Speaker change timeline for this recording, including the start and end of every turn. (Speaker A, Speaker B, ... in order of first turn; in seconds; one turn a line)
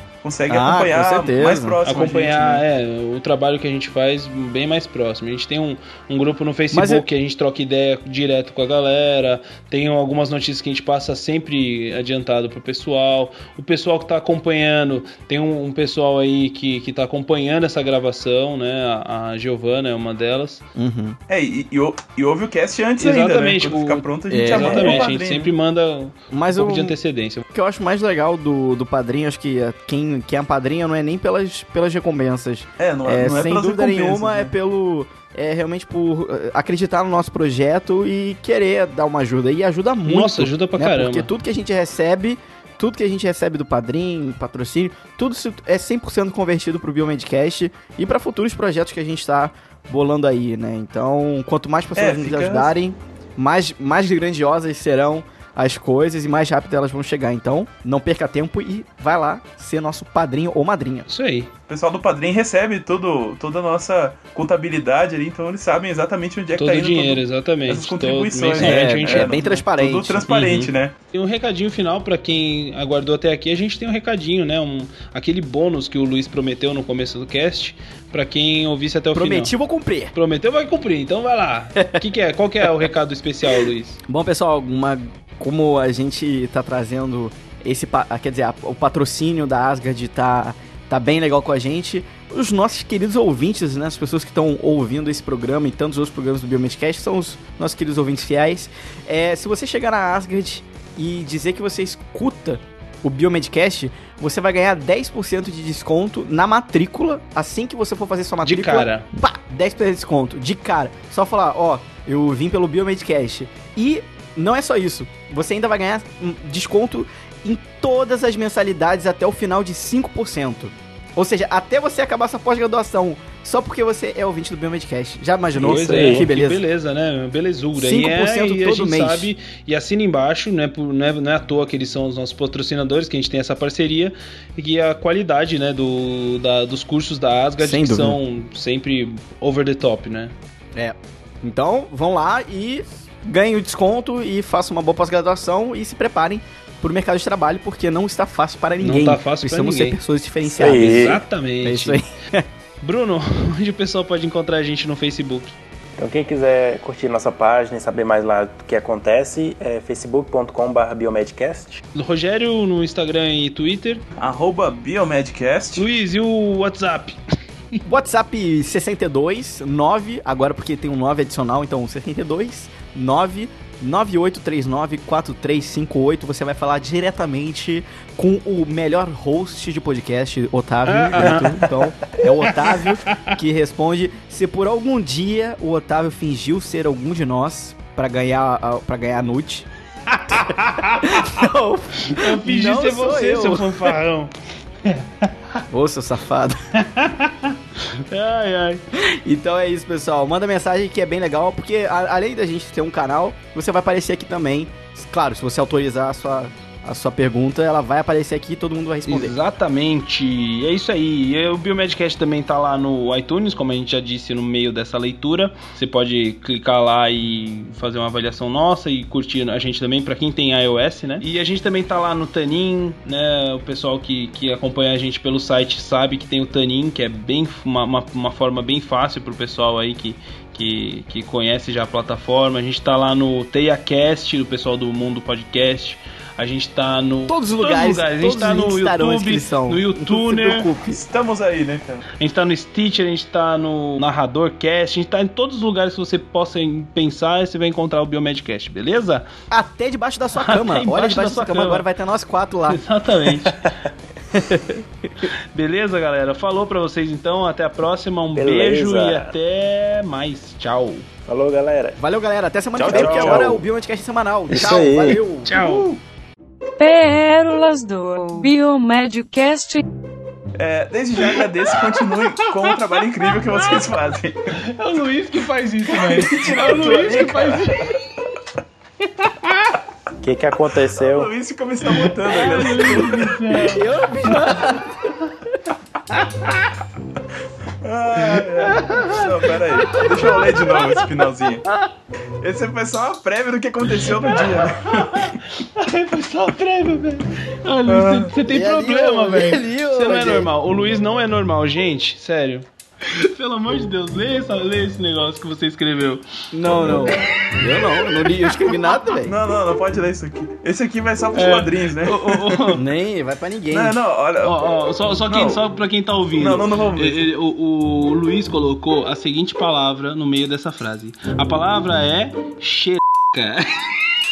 Speaker A: 0.2-2.6
Speaker B: 0.5-1.8
Speaker C: 1.8-20.6
Speaker B: 6.7-7.0
Speaker B: 20.8-21.2
Speaker A: 21.3-25.5
Speaker C: 23.0-27.4
Speaker B: 24.3-25.1
Speaker B: 26.3-27.0
Speaker B: 27.5-61.0
Speaker A: 32.8-34.5
Speaker C: 40.0-41.3
Speaker A: 52.0-52.7
Speaker C: 61.1-61.5
Speaker A: 61.7-70.9
Speaker C: 66.5-69.4
Speaker B: 68.6-70.3
Speaker C: 70.3-79.5
Speaker B: 79.1-80.1
Speaker C: 80.1-84.0
Speaker B: 81.8-82.0
Speaker B: 84.1-126.6
Speaker C: 108.4-109.1
Speaker C: 125.6-140.3
Speaker D: 125.6-126.2
Speaker B: 127.8-129.3
Speaker B: 137.6-138.2
Speaker B: 140.7-152.5
Speaker C: 148.8-150.0
Speaker D: 150.4-151.2
Speaker C: 150.6-152.0
Speaker C: 152.8-155.5
Speaker D: 156.0-161.8
Speaker C: 161.9-164.0
Speaker A: 164.2-165.8
Speaker C: 165.8-167.2
Speaker B: 167.8-189.7
Speaker C: 180.9-181.7
Speaker C: 182.2-183.4
Speaker C: 190.1-194.3
Speaker B: 191.0-193.9
Speaker C: 194.8-195.6
Speaker B: 195.7-196.6
Speaker C: 196.8-198.8
Speaker B: 198.9-209.3
Speaker C: 209.1-240.7
Speaker B: 237.3-241.0
Speaker A: 240.9-242.0
Speaker C: 242.2-249.2
Speaker B: 249.5-252.8
Speaker C: 250.3-251.8
Speaker C: 252.7-253.7
Speaker B: 254.3-254.8
Speaker C: 255.5-261.1
Speaker D: 258.3-259.3
Speaker D: 261.2-262.0
Speaker B: 262.0-265.5
Speaker D: 262.8-263.6
Speaker A: 262.9-263.5
Speaker D: 264.5-265.2
Speaker C: 265.4-265.9
Speaker A: 265.5-265.9
Speaker E: 266.8-269.8
Speaker A: 270.6-274.6
Speaker C: 272.0-272.9
Speaker C: 274.6-277.9
Speaker A: 276.1-277.9
Speaker C: 279.2-279.7
Speaker D: 280.2-281.3
Speaker A: 280.9-283.4
Speaker C: 281.9-283.9
Speaker B: 282.3-282.9
Speaker B: 283.5-284.9
Speaker A: 287.8-291.6
Speaker C: 288.8-289.2
Speaker B: 288.9-289.2
Speaker B: 289.8-290.8
Speaker A: 292.4-295.3
Speaker C: 294.3-307.5
Speaker A: 297.9-298.3
Speaker B: 298.4-300.5
Speaker B: 306.5-309.4
Speaker A: 309.2-312.8
Speaker C: 311.3-312.8
Speaker B: 312.7-314.0
Speaker A: 313.7-314.6
Speaker C: 314.4-323.9
Speaker A: 315.3-315.6
Speaker A: 316.4-317.2